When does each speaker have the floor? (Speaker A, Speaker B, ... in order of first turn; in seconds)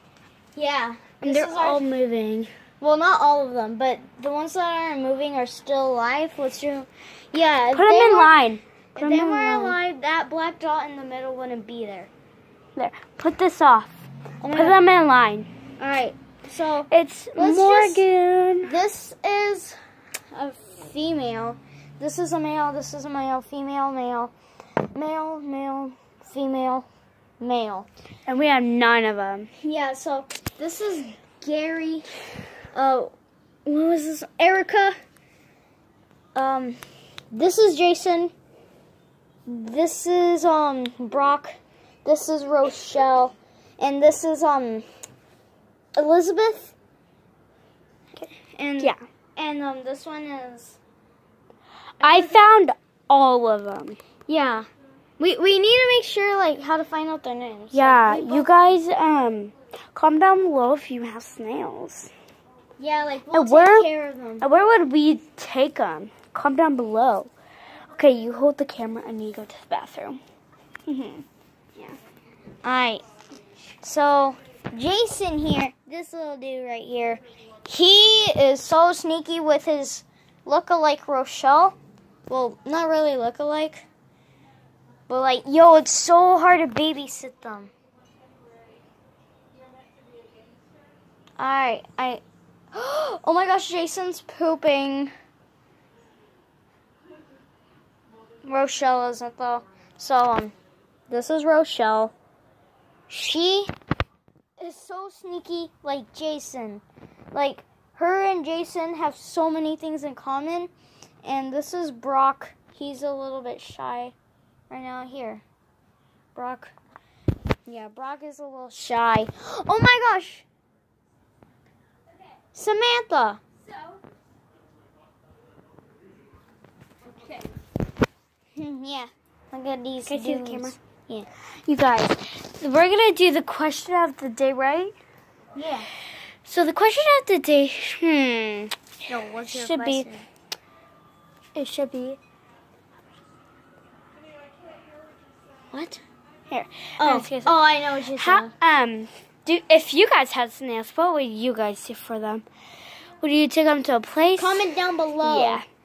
Speaker A: 0.5-1.8, 2.8-8.4, 8.9-12.1, 14.4-14.8, 15.8-18.0, 18.6-19.7, 20.3-24.3, 24.9-26.9, 27.4-27.9, 29.6-32.1, 32.7-33.1, 33.6-34.9, 36.3-36.8, 37.3-38.3, 39.5-44.8, 46.0-46.7, 48.5-50.8, 52.0-52.4, 54.3-54.6, 55.2-58.6, 62.8-64.5, 72.6-73.0, 73.8-81.8, 82.3-83.8, 85.1-87.7, 91.4-92.2, 92.7-95.1, 98.4-100.5, 101.1-102.1, 103.1-103.7, 104.6-110.7, 111.2-114.1, 114.7-115.4, 116.3-116.7, 117.7-120.4, 122.5-123.4, 128.6-131.3, 135.5-135.9, 139.1-140.2, 145.7-146.0, 147.0-148.5, 154.4-155.6
Speaker B: 1.2-2.5, 7.7-9.8, 12.8-15.5, 16.9-18.7, 28.3-29.5, 52.0-54.0, 57.7-62.1, 63.3-63.9, 64.4-67.3, 67.9-70.2, 70.9-71.2, 130.1-130.7, 131.7-134.9, 136.4-138.7, 139.4-140.1, 141.5-142.2, 146.5-147.6, 148.1-152.4, 153.2-154.7, 155.2-155.6